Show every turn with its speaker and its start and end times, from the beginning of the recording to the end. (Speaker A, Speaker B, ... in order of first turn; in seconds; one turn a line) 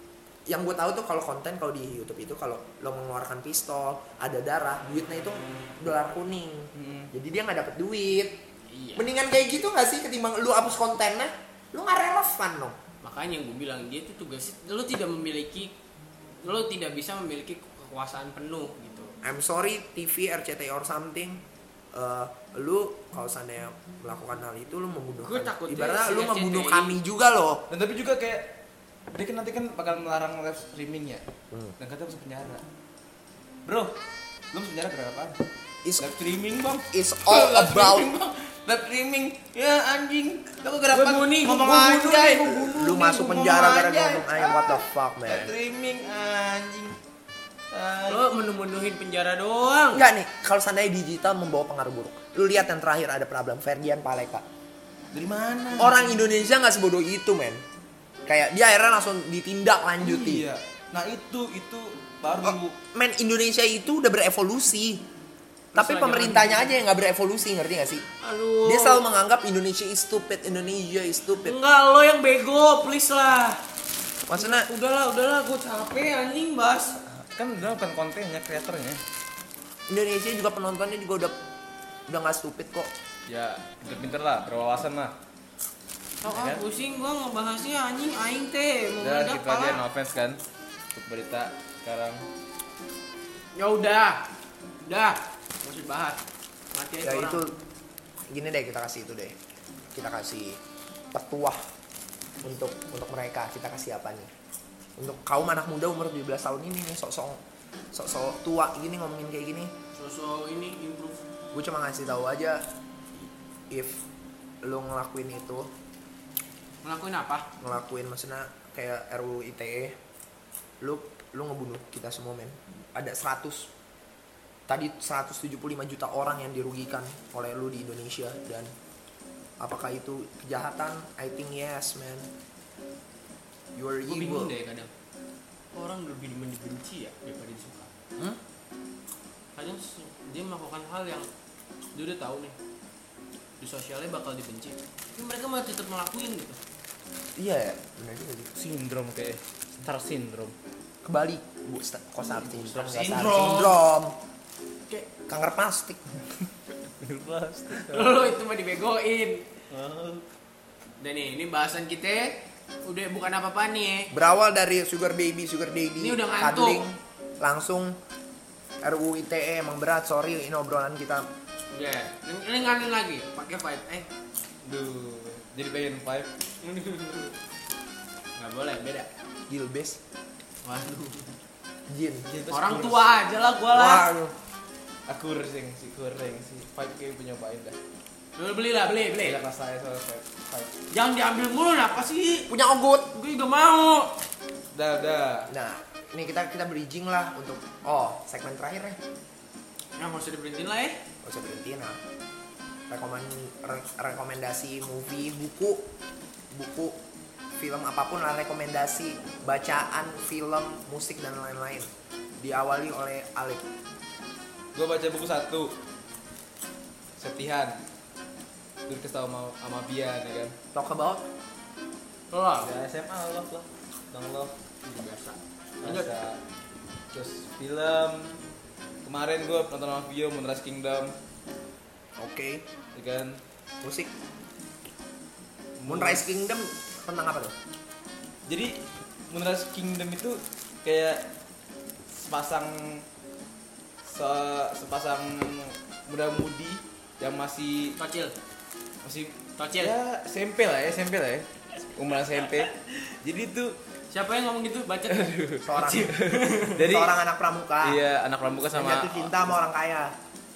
Speaker A: 0.5-8.4
Speaker B: 6.7-7.1
Speaker C: 8.7-9.1
Speaker A: 8.9-12.8
Speaker C: 13.0-15.7
Speaker C: 16.4-19.1
Speaker A: 19.2-21.4
Speaker A: 21.9-27.6
Speaker C: 25.2-27.0
Speaker B: 27.7-28.5
Speaker B: 29.1-31.2
Speaker A: 31.5-31.8
Speaker B: 31.8-32.6
Speaker B: 33.6-33.9
Speaker B: 34.5-35.4
Speaker B: 36.0-47.0
Speaker A: 36.9-38.1
Speaker C: 40.9-42.6
Speaker A: 42.6-45.5
Speaker B: 47.7-48.2
Speaker C: 48.1-50.0
Speaker A: 49.9-54.4
Speaker B: 55.1-56.0
Speaker A: 55.8-57.6
Speaker A: 58.2-60.5
Speaker B: 60.0-62.7
Speaker A: 62.4-65.0
Speaker C: 65.7-66.7
Speaker A: 65.7-68.1
Speaker C: 68.2-69.0
Speaker A: 68.6-71.5
Speaker C: 71.4-73.6
Speaker A: 74.3-74.7
Speaker C: 74.3-77.0
Speaker B: 77.3-79.0
Speaker A: 79.9-81.3
Speaker A: 82.1-82.9
Speaker B: 83.3-85.1
Speaker C: 86.2-89.8
Speaker B: 86.2-86.6
Speaker B: 89.0-90.4
Speaker B: 90.9-92.2
Speaker C: 93.5-94.3
Speaker C: 94.8-96.2
Speaker C: 96.7-97.4
Speaker A: 97.0-97.5
Speaker A: 98.3-99.3
Speaker A: 99.9-100.6
Speaker A: 101.1-101.6
Speaker A: 102.4-104.3
Speaker A: 105.0-107.4
Speaker A: 107.9-109.7
Speaker C: 109.9-111.2
Speaker A: 111.5-112.6
Speaker A: 113.2-114.0
Speaker A: 114.6-115.7
Speaker C: 116.8-117.5
Speaker A: 117.6-120.0
Speaker A: 120.8-123.7
Speaker A: 124.7-128.7
Speaker A: 129.6-132.3
Speaker A: 133.7-134.5
Speaker C: 134.1-134.9
Speaker C: 135.7-137.9
Speaker C: 139.6-141.3
Speaker C: 141.9-142.6
Speaker C: 143.6-146.6
Speaker A: 147.3-148.5
Speaker B: 148.5-150.5
Speaker A: 151.0-154.2
Speaker C: 152.2-153.8
Speaker A: 155.3-156.0
Speaker B: 157.0-158.2
Speaker C: 157.8-159.5
Speaker B: 159.7-160.2
Speaker C: 161.0-164.1
Speaker A: 164.1-167.9
Speaker C: 166.0-166.8
Speaker A: 168.8-171.2
Speaker C: 171.7-174.1
Speaker B: 174.6-176.3
Speaker C: 176.6-177.3
Speaker C: 178.3-179.1
Speaker A: 179.5-180.0
Speaker C: 180.6-181.3
Speaker A: 181.9-182.3
Speaker B: 182.2-183.2
Speaker C: 182.5-184.1
Speaker A: 183.7-184.3
Speaker B: 185.1-187.8
Speaker C: 188.4-189.4
Speaker B: 189.2-190.8
Speaker C: 190.9-192.5
Speaker A: 192.5-193.1
Speaker C: 193.1-194.2
Speaker B: 194.7-195.5
Speaker A: 195.5-199.0
Speaker C: 200.0-201.0
Speaker A: 201.2-202.0
Speaker A: 202.9-205.8
Speaker A: 206.5-207.0
Speaker A: 207.6-213.6
Speaker B: 214.7-215.7
Speaker B: 217.2-217.8
Speaker B: 218.9-220.5
Speaker A: 220.7-221.3
Speaker C: 222.3-222.7
Speaker B: 222.6-224.5
Speaker C: 224.8-226.1
Speaker B: 225.8-226.4
Speaker B: 227.1-228.3
Speaker B: 229.0-231.1
Speaker A: 232.2-232.6
Speaker B: 232.9-233.4
Speaker A: 233.8-234.1
Speaker B: 235.8-236.2
Speaker A: 235.8-237.5
Speaker B: 238.5-238.8
Speaker B: 239.3-241.2
Speaker B: 242.1-243.0
Speaker B: 244.1-247.9
Speaker C: 248.0-248.3
Speaker B: 249.0-253.8
Speaker C: 249.6-249.9
Speaker C: 254.1-256.8
Speaker B: 255.1-257.1
Speaker A: 255.7-256.1
Speaker A: 256.8-258.0
Speaker B: 257.8-259.4
Speaker A: 258.7-260.1